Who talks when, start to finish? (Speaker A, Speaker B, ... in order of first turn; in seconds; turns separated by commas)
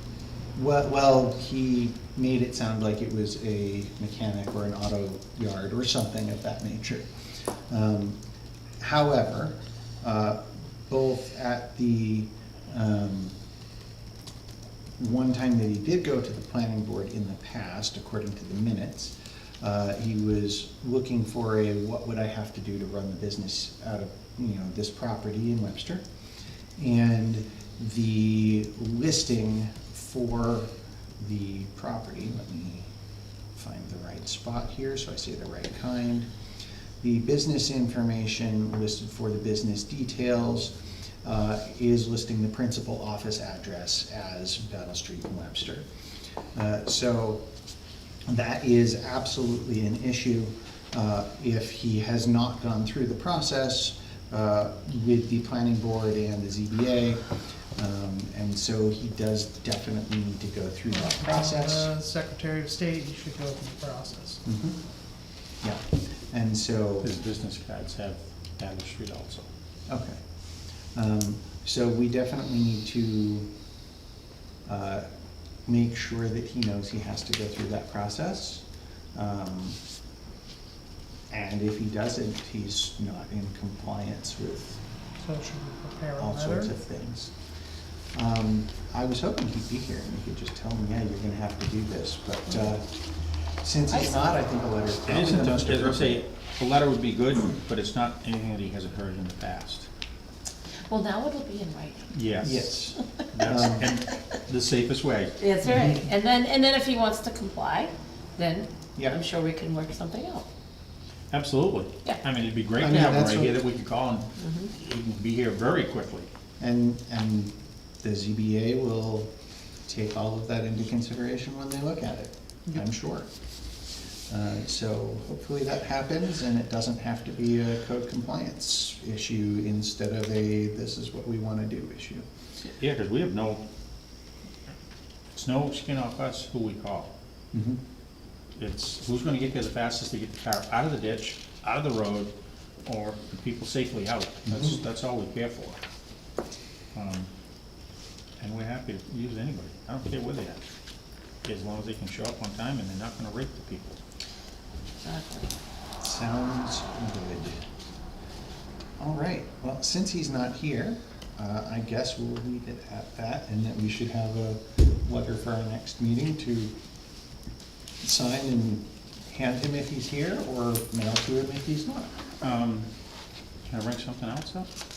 Speaker A: 0.6-7.1, Speaker A: 7.7-8.2, Speaker A: 8.8-13.3, Speaker A: 15.0-26.0, Speaker A: 26.8-32.9, Speaker A: 33.5-36.3, Speaker A: 37.0-45.9, Speaker A: 46.5-47.4, Speaker A: 48.3-57.2, Speaker A: 57.8-61.9, Speaker B: 60.9-64.4, Speaker A: 64.4-64.8, Speaker A: 65.6-67.1, Speaker C: 67.0-69.5, Speaker A: 69.9-70.2, Speaker A: 70.9-73.5, Speaker A: 74.7-75.0, Speaker A: 75.7-78.6, Speaker A: 79.1-79.8, Speaker A: 81.3-84.8, Speaker B: 85.2-86.7, Speaker A: 86.2-87.3, Speaker A: 88.1-92.8, Speaker A: 93.6-96.2, Speaker C: 95.0-99.9, Speaker D: 100.9-102.1, Speaker C: 102.1-102.8, Speaker A: 102.4-103.9, Speaker C: 103.3-105.4, Speaker D: 105.4-107.8, Speaker A: 105.6-106.0, Speaker D: 108.4-110.5, Speaker C: 111.3-116.3, Speaker A: 112.8-113.6, Speaker D: 114.4-114.7, Speaker A: 116.6-119.3, Speaker A: 119.8-123.3, Speaker A: 124.3-132.2, Speaker C: 132.6-133.6, Speaker C: 135.3-137.1, Speaker A: 137.5-137.8, Speaker C: 138.6-142.3, Speaker C: 142.8-145.8, Speaker A: 144.5-144.8, Speaker C: 146.9-147.3, Speaker C: 148.4-150.6, Speaker C: 151.4-153.9, Speaker D: 155.0-155.5, Speaker A: 156.0-157.6, Speaker A: 159.0-166.7, Speaker A: 168.0-172.2, Speaker C: 172.4-172.9, Speaker C: 173.7-174.7